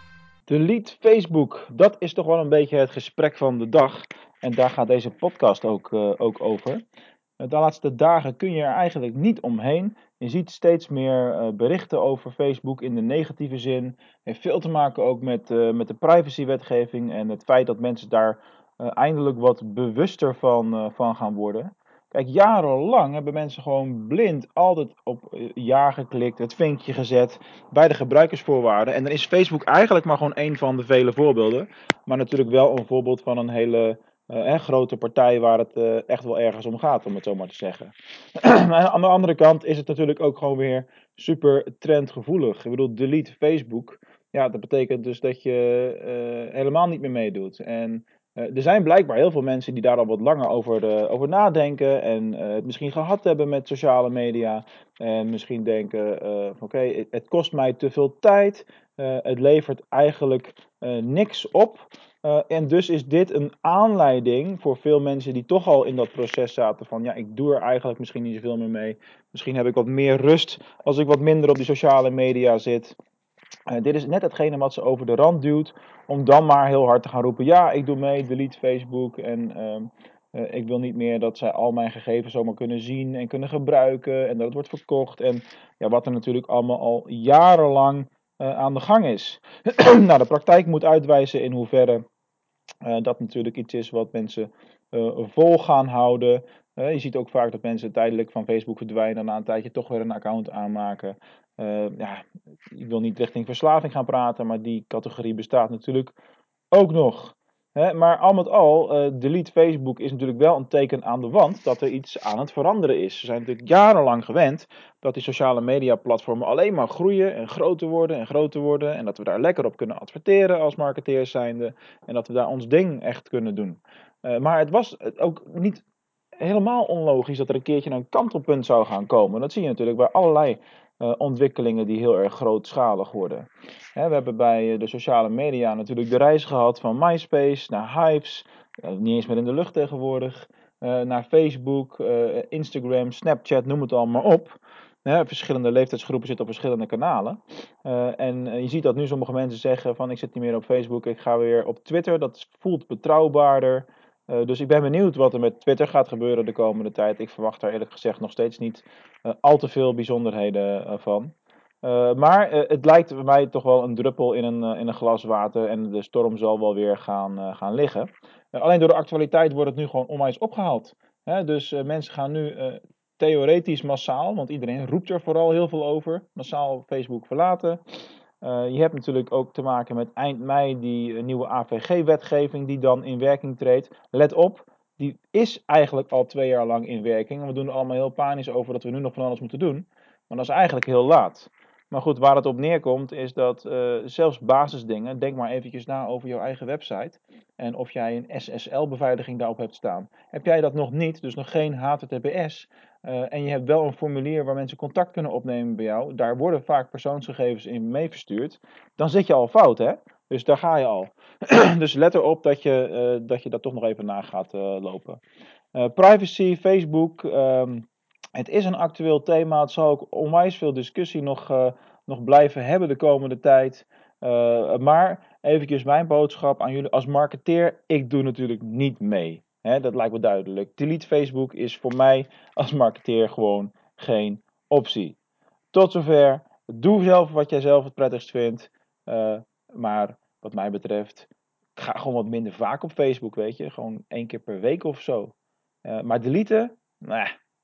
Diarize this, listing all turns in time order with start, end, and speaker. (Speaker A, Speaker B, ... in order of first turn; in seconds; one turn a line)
Speaker A: 0.5-6.8
Speaker A: 7.4-73.0
Speaker A: 73.7-92.1
Speaker A: 92.8-106.2
Speaker A: 106.7-125.8
Speaker A: 126.4-177.8
Speaker A: 178.4-215.2
Speaker A: 215.7-235.2
Speaker A: 235.7-247.3